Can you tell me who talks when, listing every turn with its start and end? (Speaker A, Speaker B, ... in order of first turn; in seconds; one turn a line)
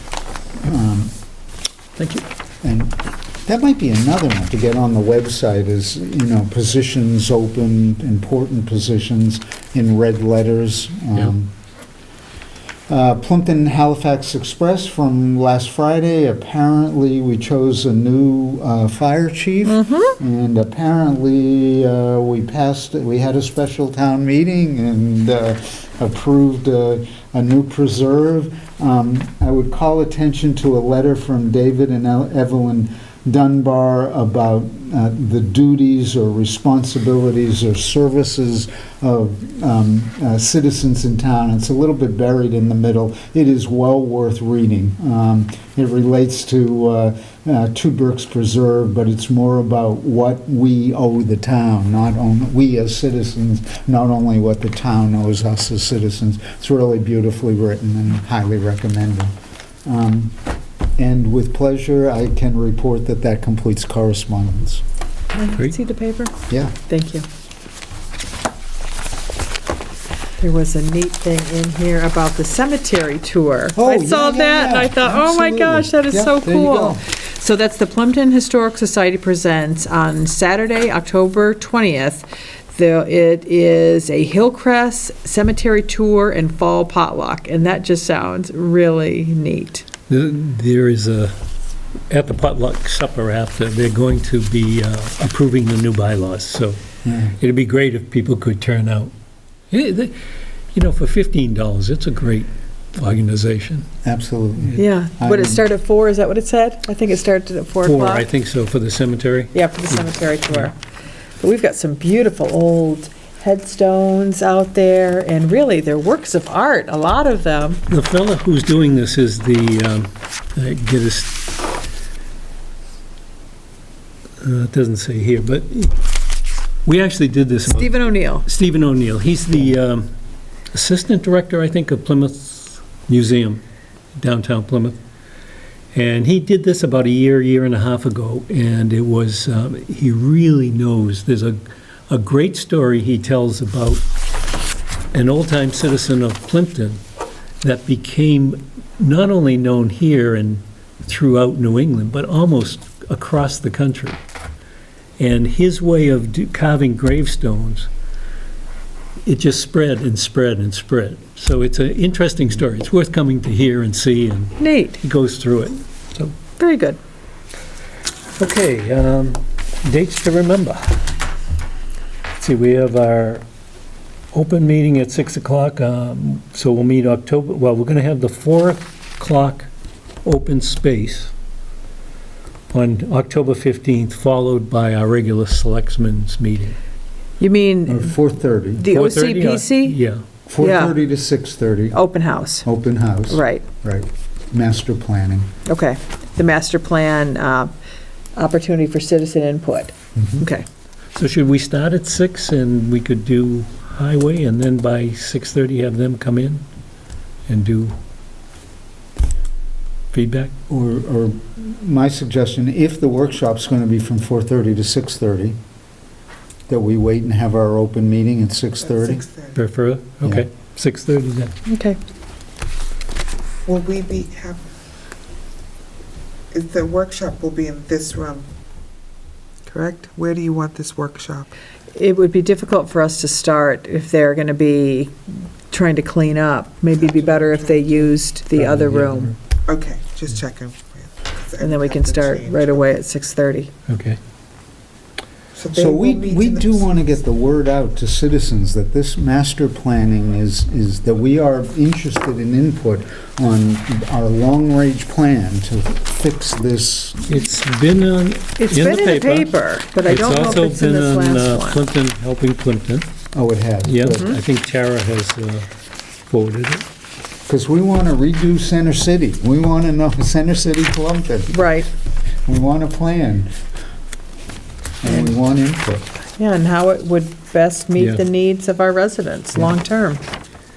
Speaker A: 0.6-1.1
Speaker B: 2.0-2.2
Speaker A: 2.6-11.5
Speaker A: 12.9-60.4
Speaker C: 19.6-20.1
Speaker A: 61.0-64.8
Speaker C: 65.3-66.3
Speaker A: 66.5-66.7
Speaker C: 66.9-67.2
Speaker C: 70.4-89.8
Speaker A: 73.8-77.0
Speaker B: 90.1-91.3
Speaker B: 92.1-96.8
Speaker A: 97.0-97.3
Speaker B: 97.4-99.1
Speaker B: 99.7-100.1
Speaker B: 100.7-103.9
Speaker A: 104.0-105.6
Speaker C: 104.8-108.2
Speaker B: 107.8-110.7
Speaker C: 109.5-110.7
Speaker C: 111.4-117.8
Speaker B: 117.9-121.4
Speaker B: 124.4-125.9
Speaker B: 126.8-130.1
Speaker C: 127.7-128.4
Speaker B: 130.7-133.6
Speaker B: 134.2-135.0
Speaker B: 135.9-141.6
Speaker B: 142.1-144.0
Speaker B: 145.1-147.0
Speaker B: 147.6-154.2
Speaker B: 155.2-157.9
Speaker B: 159.2-166.3
Speaker C: 164.6-165.0
Speaker C: 166.6-167.0
Speaker B: 168.3-171.0
Speaker B: 172.4-173.4
Speaker B: 174.3-179.7
Speaker B: 180.2-181.3
Speaker B: 182.7-186.8
Speaker C: 187.4-188.2
Speaker A: 187.9-188.9
Speaker C: 188.8-189.9
Speaker B: 188.9-190.2
Speaker A: 190.5-192.0
Speaker C: 190.6-190.9
Speaker C: 191.9-192.7
Speaker A: 192.6-195.5
Speaker C: 193.3-193.7
Speaker C: 195.7-197.7
Speaker C: 198.3-200.7
Speaker A: 200.2-200.4
Speaker B: 201.1-206.6
Speaker B: 207.5-207.9
Speaker B: 210.1-210.5
Speaker A: 210.7-215.6
Speaker A: 216.7-219.2
Speaker D: 218.8-219.6
Speaker B: 219.5-221.5
Speaker C: 221.7-222.0
Speaker D: 223.6-224.6
Speaker D: 226.5-228.5
Speaker D: 229.7-231.5
Speaker C: 231.9-239.3
Speaker D: 236.9-238.1
Speaker B: 238.5-239.3
Speaker D: 239.7-243.0
Speaker C: 241.6-243.7
Speaker B: 243.9-244.2
Speaker D: 245.5-247.2
Speaker A: 245.7-257.3
Speaker B: 257.2-259.5
Speaker C: 258.6-261.8
Speaker B: 260.0-263.1
Speaker A: 263.3-264.4
Speaker B: 263.8-265.7
Speaker B: 266.3-266.8
Speaker A: 267.5-271.6
Speaker C: 271.5-271.9
Speaker A: 272.4-273.5
Speaker A: 275.0-276.1
Speaker C: 275.1-275.3
Speaker C: 276.4-280.2
Speaker B: 277.9-278.2